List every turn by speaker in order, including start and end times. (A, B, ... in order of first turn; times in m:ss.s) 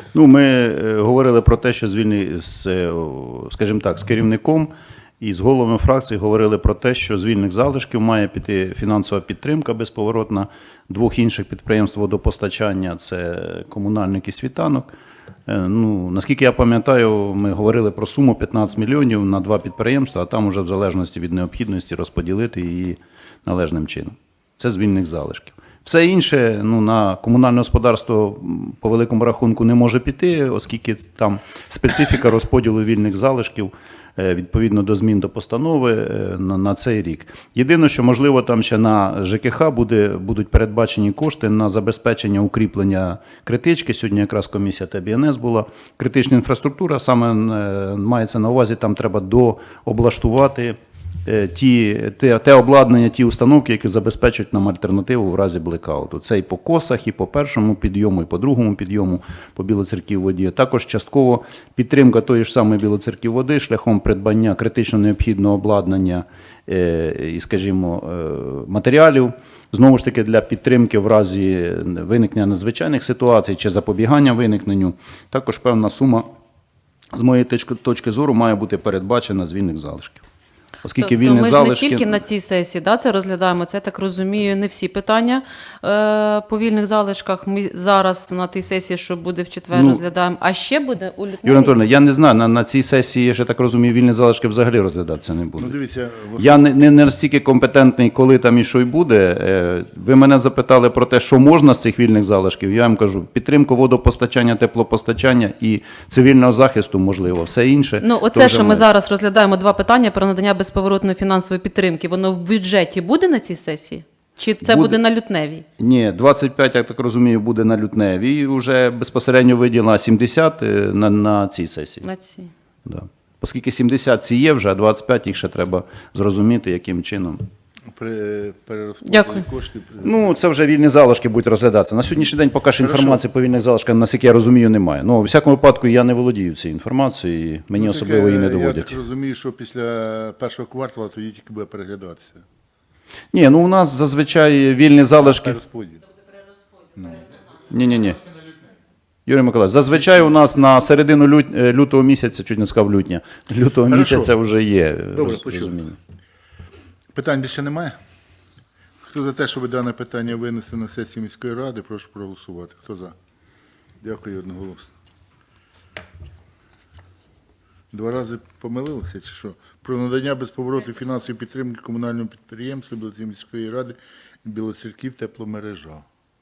0:00.1-0:14.9 A
0:15.5-1:16.3 A
1:17.1-1:20.2 A
1:20.8-1:22.2 A
1:21.0-1:31.8 B
1:29.7-1:30.0 A
1:31.4-1:35.8 A
1:35.6-1:36.7 C
1:36.4-1:48.9 A
1:48.0-1:55.6 B
1:54.6-1:55.0 A
1:55.8-2:02.1 A
2:02.0-2:02.5 B
2:02.8-2:07.5 A
2:07.9-2:10.4 C
2:09.0-2:09.5 B
2:10.0-2:19.0 A
2:12.8-2:13.2 C
2:17.7-2:22.4 C
2:23.3-2:25.6 A
2:25.2-2:26.1 C
2:26.9-2:27.4 C
2:27.7-2:28.2 A
2:29.3-2:36.0 A
2:29.9-2:30.3 C
2:33.9-2:34.4 C
2:35.1-2:35.8 C
2:37.2-2:38.0 C
2:39.0-2:43.2 C
2:44.0-2:44.9 C
2:47.9-2:56.1 C